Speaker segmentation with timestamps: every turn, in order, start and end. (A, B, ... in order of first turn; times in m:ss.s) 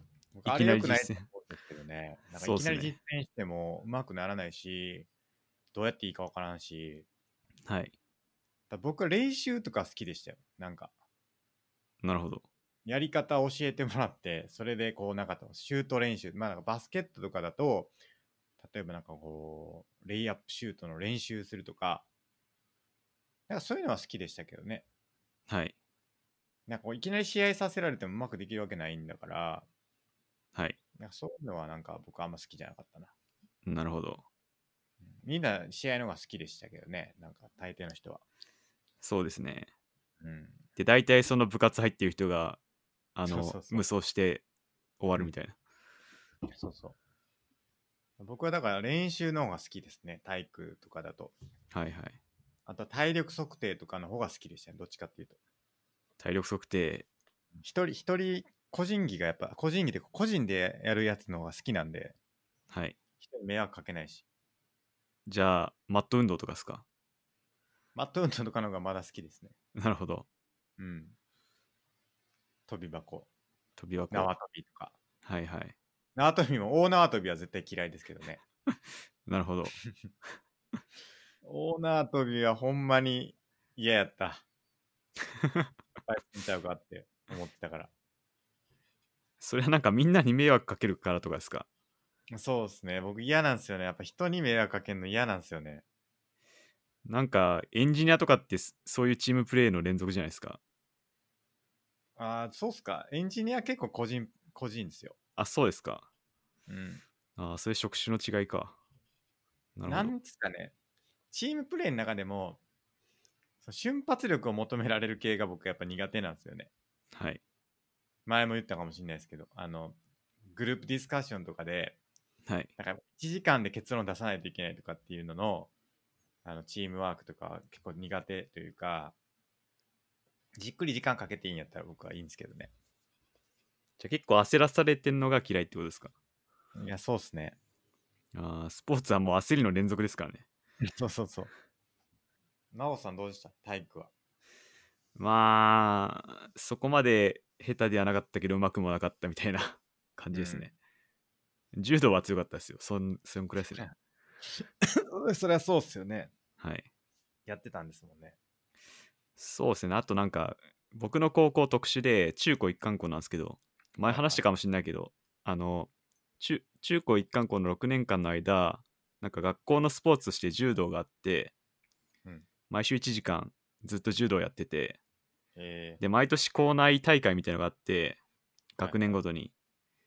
0:00.3-0:05.1 A
0:00.4-0:01.3 B
0:02.4-0:03.0 B
0:05.7-0:07.0 A
0:07.6-0:07.9 B
0:08.7-0:10.9 A
0:12.0-0:12.4 B
0:12.8-0:17.9 A
0:18.6-0:22.0 A
0:23.5-0:24.8 A
0:25.5-0:25.7 B
0:26.7-0:29.7 A
0:31.0-0:33.1 A
0:33.6-0:34.2 B
0:35.2-0:38.2 A
0:39.0-0:39.7 B
0:40.2-0:40.6 A
0:40.8-0:42.6 B
0:43.1-0:44.4 B
0:43.3-0:43.8 A
0:45.0-0:45.6 B
0:46.5-0:47.0 A
0:48.2-0:51.3 A
0:51.7-0:52.2 B
0:52.6-0:55.4 A
0:56.2-0:57.0 B
0:57.6-1:02.2 A
1:02.7-1:03.0 B
1:03.2-1:04.2 A
1:05.3-1:06.8 B
1:07.9-1:09.5 A
1:09.7-1:10.2 B
1:10.8-1:11.1 A
1:12.7-1:13.3 A
1:13.8-1:14.3 B
1:14.1-1:14.9 A
1:15.2-1:15.7 B
1:16.2-1:18.4 A
1:19.2-1:19.7 B
1:21.4-1:24.4 A
1:25.4-1:25.7 B
1:26.0-1:27.9 A
1:29.4-1:31.6 B
1:32.3-1:35.8 A
1:37.0-1:40.6 B
1:42.2-1:45.2 A
1:45.4-1:46.0 B
1:46.7-1:47.0 A
1:47.4-1:48.8 B
1:49.8-1:50.1 B
1:49.8-1:50.7 A
1:51.3-1:52.6 A
1:53.6-1:56.7 A
1:57.1-1:57.4 B
1:58.2-2:00.0 A
2:00.5-2:02.0 A
2:02.8-2:05.7 A
2:06.4-2:09.1 A
2:10.6-2:12.7 A
2:14.0-2:16.1 B
2:16.8-2:17.6 A
2:18.3-2:20.4 B
2:20.8-2:21.5 A
2:22.7-2:24.1 A
2:25.1-2:30.7 B
2:30.3-2:30.7 A
2:31.7-2:33.9 B
2:34.6-2:36.3 A
2:36.6-2:36.9 B
2:37.4-2:38.4 A
2:39.4-2:51.5 B
2:44.1-2:44.4 A
2:52.7-2:55.0 B
2:55.6-2:56.0 A
2:56.0-2:58.2 B
2:58.8-2:59.5 B
2:58.8-2:59.2 A